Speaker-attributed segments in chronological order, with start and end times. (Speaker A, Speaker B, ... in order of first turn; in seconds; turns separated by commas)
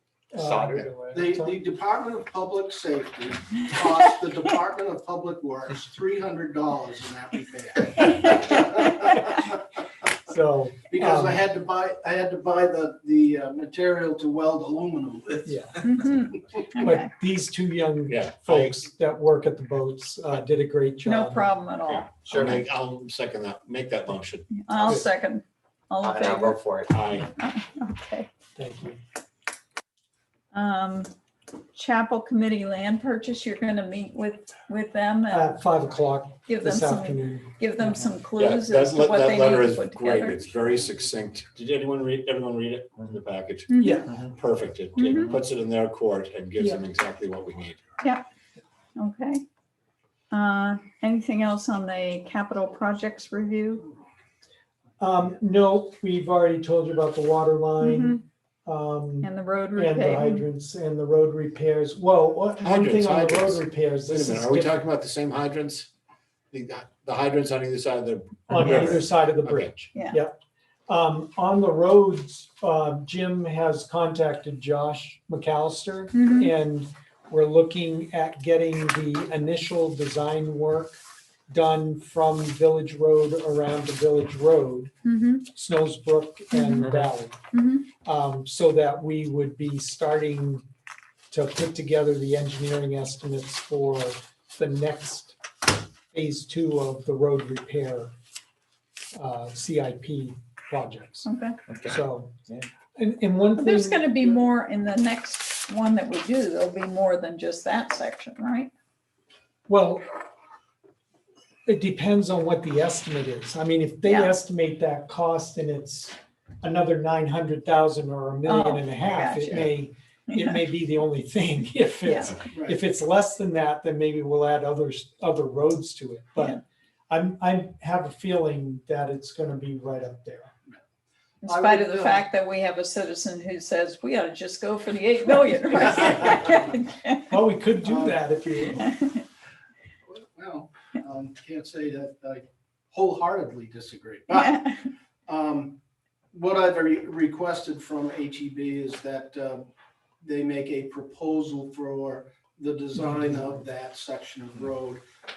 Speaker A: 0.3-1.6, Speaker B: 0.3-0.9, Speaker C: 1.1-9.5, Speaker A: 10.2-11.4, Speaker C: 10.9-15.6, Speaker A: 15.4-15.8, Speaker D: 15.8-17.1, Speaker A: 16.8-21.6, Speaker E: 18.1-18.9, Speaker D: 21.0-22.1, Speaker B: 22.2-22.6, Speaker E: 22.3-24.5, Speaker D: 24.5-26.6, Speaker B: 26.0-27.0, Speaker E: 26.9-27.3, Speaker D: 27.2-28.3, Speaker A: 28.6-29.0, Speaker D: 30.5-31.1, Speaker D: 31.7-35.6, Speaker A: 35.3-37.5, Speaker D: 36.5-40.7, Speaker E: 38.4-47.8, Speaker D: 43.7-44.1, Speaker A: 43.8-44.1, Speaker D: 45.0-45.4, Speaker D: 48.0-48.2, Speaker D: 49.0-49.4, Speaker D: 50.3-53.9, Speaker A: 55.0-64.7, Speaker D: 57.8-58.2, Speaker D: 59.2-60.4, Speaker E: 62.6-65.9, Speaker E: 66.5-69.8, Speaker A: 68.5-70.4, Speaker D: 69.9-70.2, Speaker A: 70.9-84.9, Speaker D: 76.1-76.5, Speaker D: 85.0-85.4, Speaker A: 85.5-87.4, Speaker D: 86.5-86.9, Speaker B: 86.8-87.1, Speaker D: 87.5-87.9, Speaker A: 88.0-90.6, Speaker A: 91.3-95.4, Speaker A: 96.1-98.1, Speaker A: 99.1-101.3, Speaker D: 101.2-101.6, Speaker B: 101.7-102.7, Speaker A: 101.8-102.3, Speaker A: 103.0-104.1, Speaker D: 103.5-108.7, Speaker A: 109.7-110.0, Speaker A: 111.7-130.5, Speaker D: 114.0-114.4, Speaker D: 118.4-119.7, Speaker D: 120.3-120.6, Speaker D: 122.0-122.3, Speaker C: 122.5-122.8, Speaker D: 131.4-137.2, Speaker C: 131.4-132.3, Speaker A: 137.3-138.9, Speaker C: 137.8-138.2, Speaker D: 138.8-139.2, Speaker C: 140.1-145.8, Speaker D: 144.3-144.7, Speaker C: 146.3-149.7, Speaker C: 150.2-155.0